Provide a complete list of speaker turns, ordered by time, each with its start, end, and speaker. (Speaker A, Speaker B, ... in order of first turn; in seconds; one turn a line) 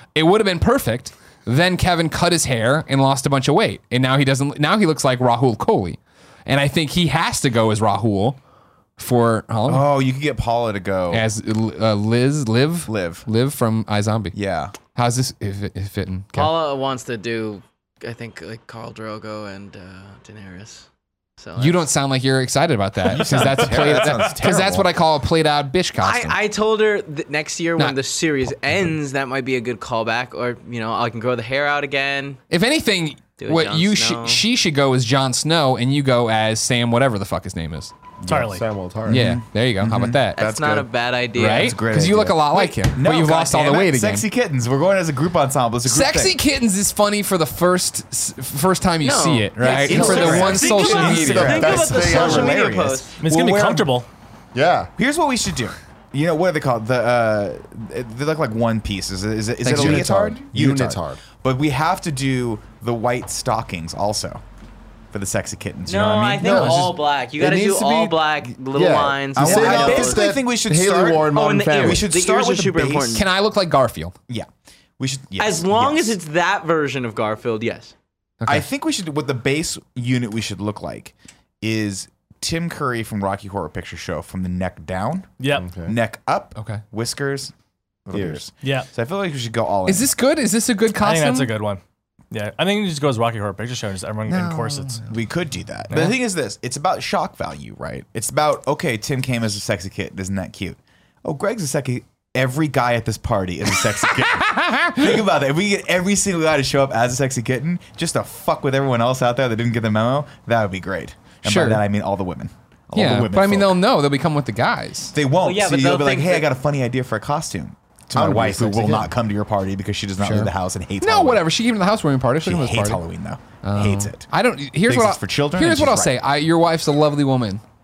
Speaker A: 0.1-8.4
Speaker A: 9.0-9.9
Speaker B: 9.7-11.2
Speaker A: 11.1-16.5
Speaker B: 12.9-13.3
Speaker B: 14.3-14.7
Speaker C: 16.3-20.9
Speaker C: 21.4-21.9
Speaker A: 21.6-26.4
Speaker B: 23.1-24.9
Speaker C: 26.0-32.4
Speaker A: 32.5-37.9
Speaker C: 33.4-34.4
Speaker B: 38.2-38.5
Speaker D: 38.2-38.6
Speaker E: 38.3-39.3
Speaker B: 39.1-40.9
Speaker A: 39.1-40.4
Speaker C: 40.3-41.8
Speaker A: 41.3-44.2
Speaker B: 41.5-46.4
Speaker A: 45.8-51.7
Speaker C: 49.0-53.2
Speaker B: 49.6-53.9
Speaker E: 49.8-52.7
Speaker D: 53.2-54.1
Speaker E: 54.5-54.9
Speaker B: 55.0-64.4
Speaker A: 59.6-60.3
Speaker E: 59.6-61.2
Speaker B: 65.1-66.9
Speaker C: 65.8-70.3
Speaker E: 66.4-72.1
Speaker B: 69.3-73.2
Speaker C: 71.3-73.2
Speaker A: 73.1-74.1
Speaker B: 74.3-76.2
Speaker C: 75.4-77.9
Speaker A: 78.4-78.7
Speaker B: 78.5-85.3
Speaker D: 85.4-85.7
Speaker E: 85.5-85.9
Speaker B: 85.8-87.5
Speaker A: 86.5-86.8
Speaker B: 88.0-90.1
Speaker E: 88.1-88.4
Speaker D: 88.6-88.9
Speaker A: 89.9-91.5
Speaker D: 91.0-95.1
Speaker A: 94.3-95.0
Speaker B: 95.0-113.8
Speaker A: 104.2-105.2
Speaker A: 111.4-111.8
Speaker A: 112.9-115.1
Speaker B: 115.1-121.4
Speaker C: 115.4-116.5
Speaker E: 118.1-119.1
Speaker A: 120.2-123.0
Speaker B: 122.4-124.3
Speaker A: 123.6-127.6
Speaker B: 124.9-126.2